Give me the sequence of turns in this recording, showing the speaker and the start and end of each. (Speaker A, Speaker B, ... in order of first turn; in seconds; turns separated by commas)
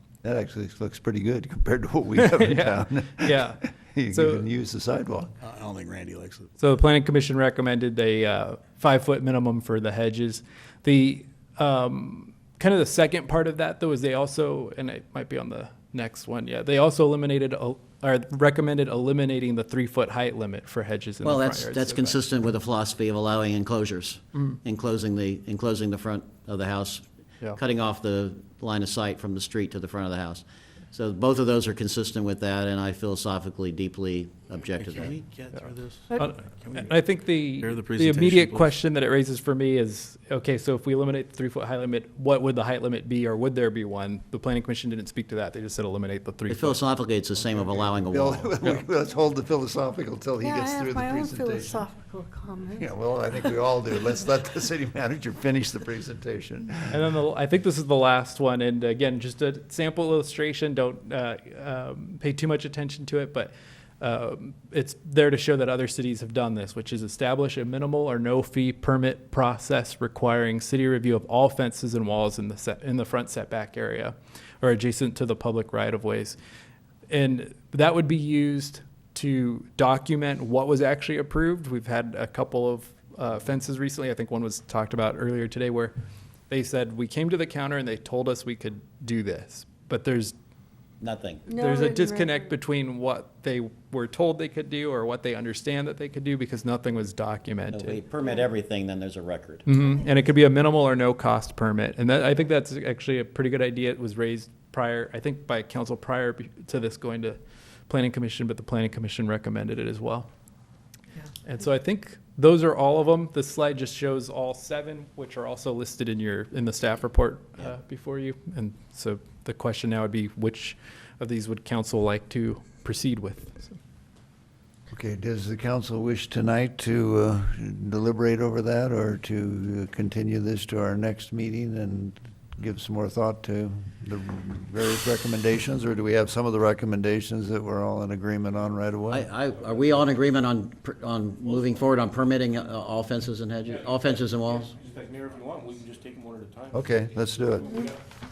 Speaker A: 0.2-5.4, Speaker B: 2.2-4.5, Speaker C: 5.6-6.4, Speaker D: 5.8-6.3, Speaker B: 6.6-22.2, Speaker E: 21.2-35.2, Speaker C: 34.8-36.9, Speaker B: 36.1-46.8, Speaker C: 37.6-38.7, Speaker E: 46.5-48.5, Speaker A: 48.0-51.9, Speaker F: 50.4-52.9, Speaker A: 52.7-57.0, Speaker B: 56.9-76.4, Speaker B: 77.1-85.9, Speaker B: 86.5-90.3, Speaker E: 91.0-91.4, Speaker F: 91.5-92.5, Speaker B: 91.5-98.0, Speaker E: 97.7-99.7, Speaker B: 99.6-107.4, Speaker B: 107.9-110.3, Speaker B: 111.4-123.8, Speaker A: 124.9-139.3, Speaker E: 139.1-144.7, Speaker D: 139.6-140.1, Speaker D: 143.6-148.0, Speaker A: 146.7-147.7